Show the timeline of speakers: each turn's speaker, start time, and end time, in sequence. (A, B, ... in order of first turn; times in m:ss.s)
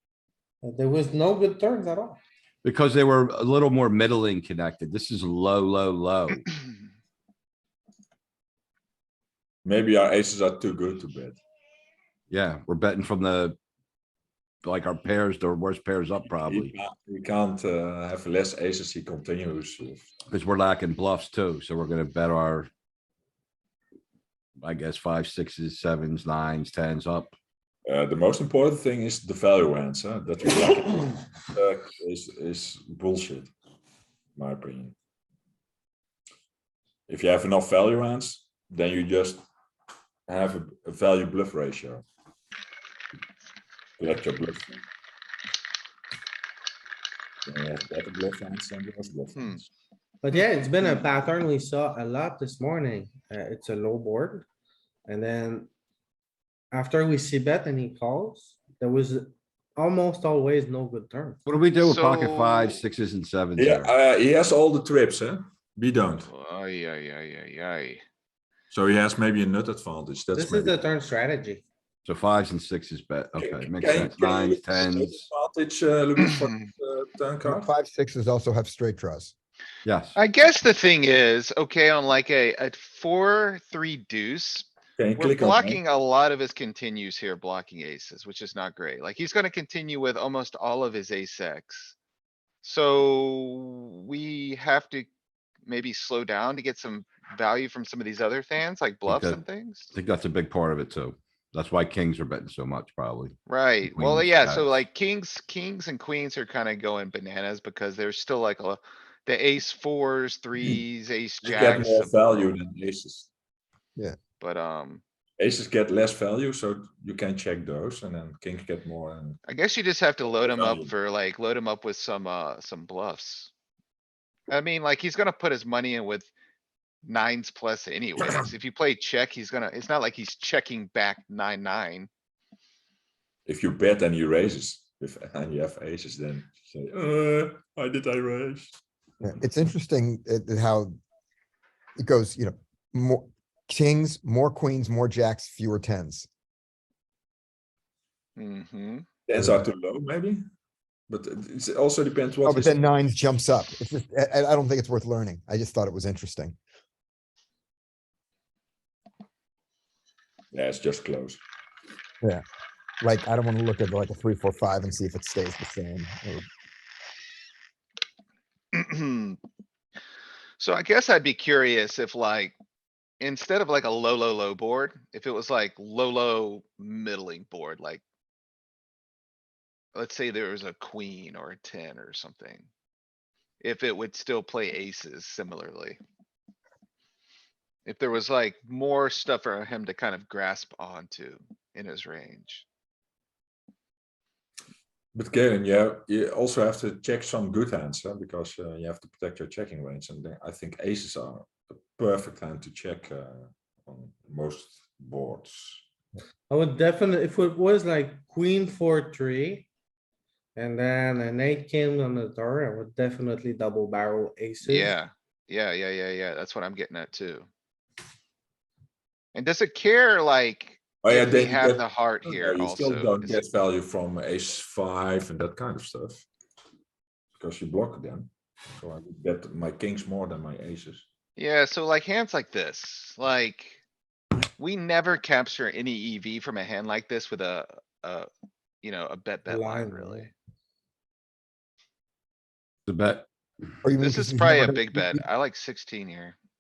0:00.6-0:02.2 A
0:02.6-0:06.4 B
0:09.6-0:11.4 C
0:12.3-0:13.6 B
0:14.6-0:16.7 B
0:16.4-0:20.1 C
0:20.3-0:22.7 B
0:24.6-0:27.4 B
0:27.8-0:33.5 C
0:34.4-0:34.9 C
0:37.1-0:39.4 C
0:40.3-0:42.0 C
0:44.0-0:44.8 C
0:47.4-0:49.6 C
0:49.3-0:49.6 D
0:50.2-0:54.4 A
0:55.0-0:55.7 A
0:56.7-1:01.4 A
1:01.4-1:03.9 B
1:01.8-1:02.8 D
1:03.6-1:06.3 C
1:06.3-1:08.0 D
1:08.7-1:10.8 C
1:10.3-1:11.6 A
1:12.0-1:15.2 B
1:13.4-1:17.7 C
1:16.2-1:16.6 D
1:17.4-1:19.3 E
1:19.8-1:20.1 B
1:20.2-1:32.0 D
1:25.0-1:25.8 C
1:32.6-1:35.1 D
1:35.6-1:39.9 D
1:39.1-1:39.4 B
1:39.9-1:44.8 B
1:43.5-1:52.5 D
1:51.4-1:53.3 C
1:54.4-1:55.0 D
1:55.4-1:59.4 C
1:59.4-2:03.5 D
2:00.4-2:00.9 C
2:04.5-2:06.3 D
2:07.0-2:12.1 D
2:13.4-2:18.8 C
2:19.2-2:21.0 E
2:22.0-2:26.3 E
2:28.4-2:29.0 D
2:29.2-2:30.4 C
2:29.4-2:29.6 E
2:31.1-2:32.8 C
2:32.4-2:36.6 E
2:40.5-2:41.4 C
2:43.0-2:46.5 E
2:48.7-2:49.4 D
2:50.6-2:52.6 D
2:53.2-2:58.0 D
2:59.9-3:02.7 D
3:03.6-3:06.0 D
3:07.8-3:12.6 D
3:15.1-3:25.8 C
3:26.5-3:29.7 A
3:30.5-3:35.0 A
3:34.6-3:37.5 D
3:39.3-3:43.4 D
3:41.0-3:46.2 C
3:47.3-3:51.0 C
3:51.4-3:53.8 D
3:54.6-3:58.3 D
3:58.8-4:00.3 D
3:59.5-4:00.3 A
4:02.9-4:03.3 B
4:03.8-4:05.2 E
4:04.0-4:06.4 D